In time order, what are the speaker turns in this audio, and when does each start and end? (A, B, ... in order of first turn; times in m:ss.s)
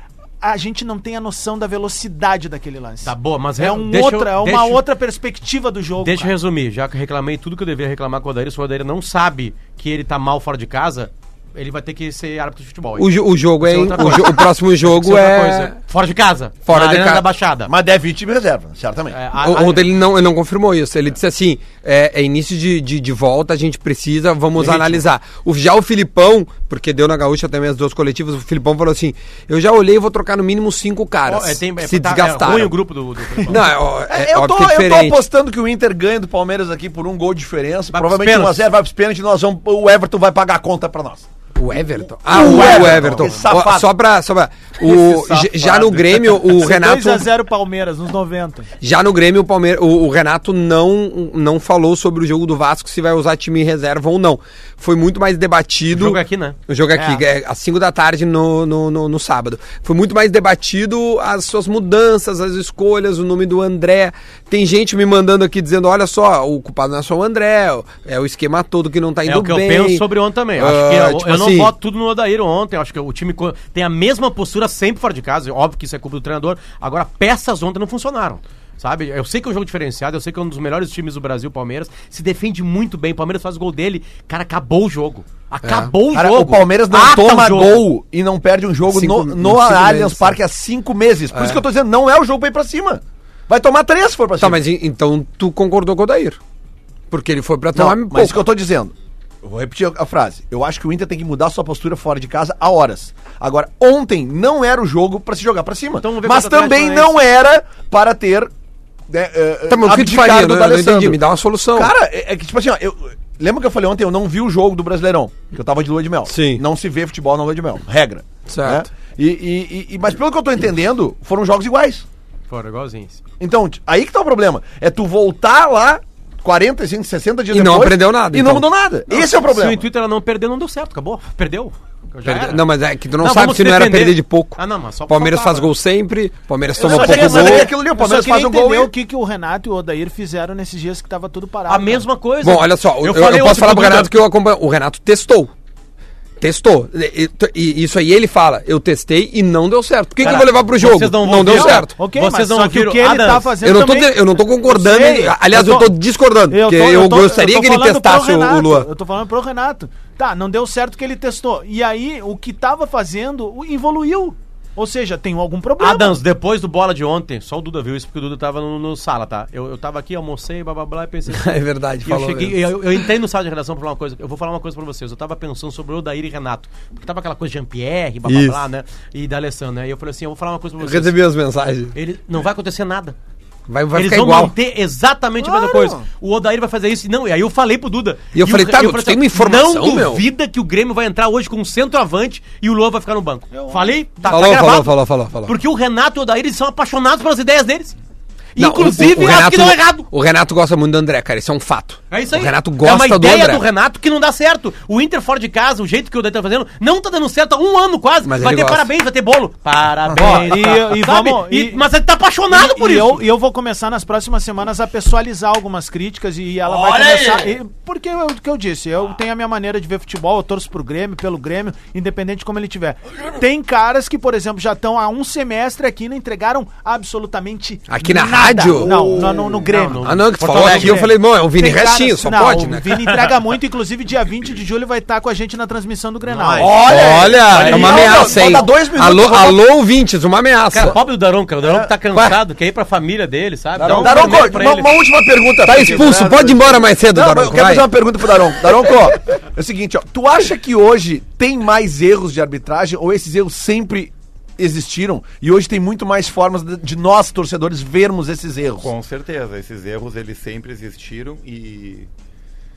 0:00.4-0:06.3 A
0:03.0-0:04.8 B
0:06.0-0:17.7 B
0:13.0-0:15.8 C
0:16.7-0:17.2 C
0:17.7-0:19.2 D
0:19.1-0:19.9 B
0:19.4-0:32.8 C
0:24.6-0:25.0 B
0:31.3-0:33.7 B
0:33.5-0:35.2 C
0:34.1-0:41.3 D
0:37.9-0:38.6 B
0:41.6-0:47.3 C
0:42.2-0:43.8 D
0:42.3-0:43.8 B
0:44.8-0:46.1 B
0:46.5-0:48.7 A
0:48.8-1:11.7 C
0:55.9-0:56.6 B
0:57.0-0:57.2 A
1:09.3-1:27.9 B
1:25.6-1:25.9 C
1:26.1-1:34.6 D
1:28.9-1:30.4 C
1:31.3-1:31.6 C
1:34.4-1:36.4 C
1:37.1-1:38.4 C
1:37.8-1:48.5 D
1:46.0-1:47.2 B
1:49.1-1:51.2 D
1:49.7-1:51.9 C
1:51.7-2:02.0 D
1:56.3-1:56.6 C
1:58.5-1:58.8 C
2:02.5-2:03.2 B
2:03.4-2:09.9 D
2:07.5-2:08.7 C
2:09.1-2:12.6 B
2:12.2-2:17.7 C
2:13.2-2:15.7 B
2:16.8-2:17.7 B
2:16.8-2:18.9 D
2:17.7-2:22.0 A
2:21.7-2:24.1 B
2:22.4-2:25.5 C
2:26.4-2:31.9 C
2:30.2-2:33.5 B
2:31.3-2:35.9 A
2:33.6-2:38.9 C
2:36.5-2:46.2 A
2:45.8-2:51.5 B
2:51.3-2:53.1 C
2:52.0-3:01.2 B
2:58.3-2:58.6 C
3:00.8-3:01.9 C
3:01.9-3:03.2 B
3:03.7-3:04.5 C
3:03.9-3:14.9 B
3:05.4-3:06.0 D
3:08.3-3:10.2 C
3:13.5-3:13.9 A
3:14.2-3:15.6 C
3:15.4-3:18.0 B
3:18.6-3:20.1 B
3:18.6-3:23.6 C
3:22.1-3:33.2 B
3:28.2-3:28.9 C
3:30.1-3:31.8 A
3:32.5-3:56.9 A
3:47.9-3:49.0 C
3:48.9-3:49.6 D
3:48.9-3:51.2 B
3:50.0-3:53.0 C
3:50.7-3:51.0 D
3:56.3-3:58.7 B
3:56.6-3:59.6 D
3:56.8-4:01.0 C
3:58.0-3:58.5 A
4:00.7-4:05.0 B
4:01.6-4:01.9 D
4:03.8-4:04.5 C
4:03.8-4:18.9 D
4:05.6-4:07.9 C
4:05.7-4:06.5 E
4:18.8-4:22.1 E